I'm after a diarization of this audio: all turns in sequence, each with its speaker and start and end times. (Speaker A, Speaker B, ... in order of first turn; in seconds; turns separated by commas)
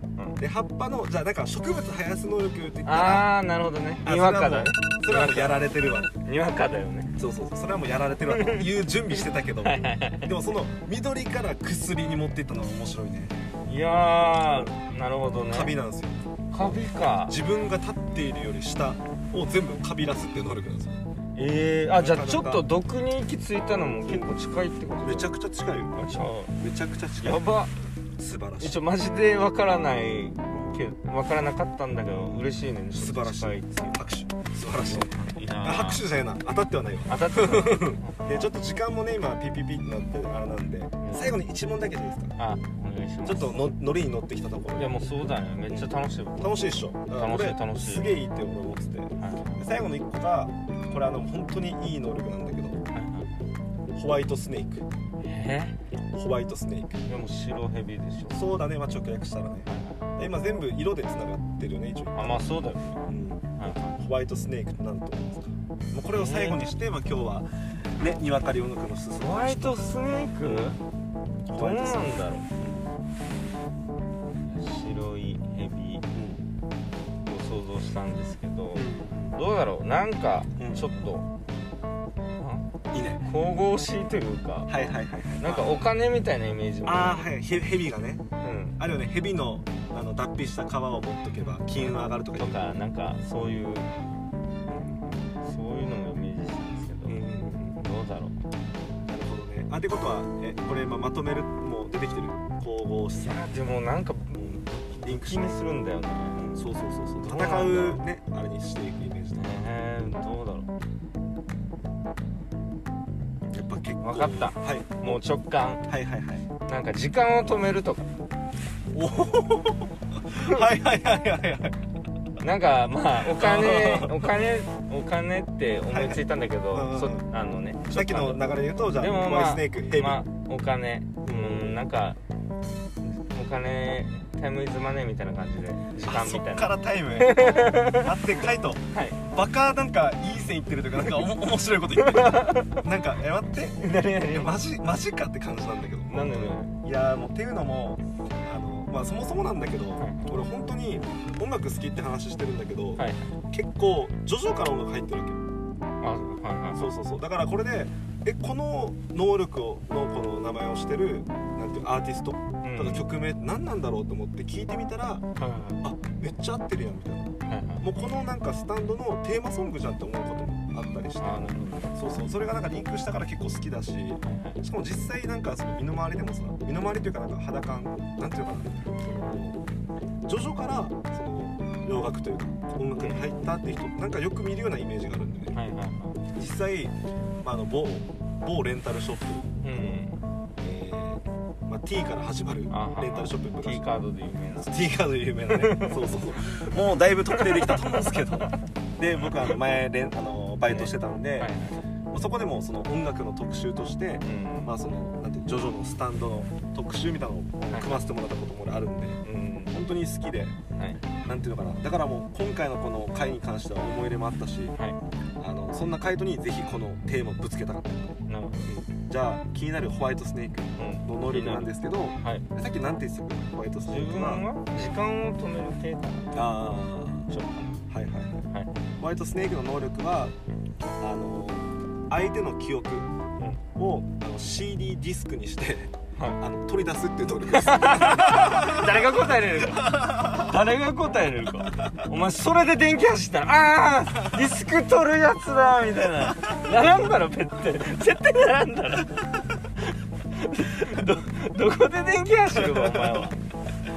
Speaker A: 0.4-3.3, Speaker B: 2.9-5.7, Speaker A: 4.0-6.1, Speaker B: 6.2-7.2, Speaker A: 7.2-13.4, Speaker B: 8.3-8.7, Speaker B: 9.6-10.3, Speaker B: 13.7-15.8, Speaker A: 15.4-21.0, Speaker B: 16.5-17.4, Speaker B: 21.4-25.3, Speaker A: 21.9-22.7, Speaker A: 24.0-24.4, Speaker A: 25.0-26.0, Speaker B: 25.9-26.6, Speaker A: 26.6-27.5, Speaker B: 27.2-27.7, Speaker A: 28.2-28.8, Speaker B: 28.6-34.0, Speaker A: 30.5-30.8, Speaker A: 32.1-42.4, Speaker B: 34.7-36.0, Speaker B: 37.1-38.5, Speaker B: 41.0-41.4, Speaker B: 42.4-43.6, Speaker A: 43.2-45.0, Speaker B: 44.8-48.2, Speaker A: 45.7-52.8, Speaker B: 49.2-49.6, Speaker B: 52.9-53.3, Speaker A: 53.9-54.9, Speaker B: 55.2-55.8, Speaker A: 56.1-57.0, Speaker B: 57.1-58.5, Speaker A: 58.3-62.5, Speaker B: 59.7-60.1, Speaker B: 62.1-63.0, Speaker A: 63.1-63.5, Speaker B: 63.6-64.0, Speaker A: 64.0-69.8, Speaker B: 66.1-66.6, Speaker B: 69.2-70.8, Speaker A: 70.4-70.8, Speaker A: 71.5-72.9, Speaker B: 71.5-72.5, Speaker B: 74.5-76.1, Speaker A: 76.1-76.4, Speaker B: 77.2-81.3, Speaker A: 78.7-79.4, Speaker A: 80.6-81.1, Speaker B: 82.4-82.7, Speaker A: 82.9-83.3, Speaker B: 83.2-84.9, Speaker A: 84.7-85.9, Speaker B: 85.4-87.3, Speaker A: 86.8-88.3, Speaker B: 88.4-88.8, Speaker A: 88.8-92.7, Speaker B: 91.7-93.9, Speaker A: 94.7-95.0, Speaker B: 95.0-98.4, Speaker A: 97.0-97.8, Speaker A: 99.1-103.5, Speaker B: 103.2-106.5, Speaker A: 104.3-105.6, Speaker A: 106.3-109.6, Speaker B: 107.2-108.0, Speaker B: 109.4-110.7, Speaker A: 113.5-115.3, Speaker B: 114.0-115.8, Speaker A: 115.9-116.5, Speaker B: 116.7-118.1, Speaker A: 118.9-121.8, Speaker B: 122.4-132.2, Speaker A: 123.3-124.3, Speaker A: 125.9-127.3, Speaker A: 127.8-130.3, Speaker A: 131.2-131.8, Speaker B: 133.0-138.2, Speaker A: 135.9-155.4, Speaker B: 138.9-139.2, Speaker B: 142.0-142.8, Speaker B: 143.8-144.6, Speaker B: 146.1-146.8, Speaker B: 150.0-150.4, Speaker B: 153.0-153.3, Speaker B: 156.0-156.9, Speaker A: 156.7-165.2, Speaker B: 162.6-163.1, Speaker B: 165.4-165.8, Speaker A: 165.8-179.6, Speaker B: 167.4-167.9, Speaker B: 171.2-172.0, Speaker B: 174.2-174.6, Speaker A: 180.2-185.6, Speaker B: 183.0-183.3, Speaker B: 185.5-186.2, Speaker A: 186.3-190.0, Speaker B: 189.6-190.2, Speaker A: 190.6-193.9, Speaker B: 192.7-194.8, Speaker A: 194.6-201.5, Speaker B: 195.5-196.0, Speaker B: 197.3-198.5, Speaker B: 199.2-199.6, Speaker B: 200.7-201.8, Speaker A: 202.1-209.2, Speaker B: 204.2-204.8, Speaker B: 207.7-208.0, Speaker B: 209.2-209.8, Speaker A: 209.7-210.6, Speaker B: 210.8-211.0, Speaker A: 211.2-214.8, Speaker A: 215.4-224.5, Speaker B: 218.3-218.8, Speaker B: 220.8-222.5, Speaker B: 223.8-227.8, Speaker A: 226.3-227.3, Speaker A: 227.9-230.3, Speaker B: 228.5-228.8, Speaker A: 231.0-233.1, Speaker A: 233.8-240.5, Speaker B: 236.2-236.4, Speaker B: 237.5-249.2, Speaker A: 241.7-242.0, Speaker B: 250.3-253.4, Speaker A: 252.5-253.3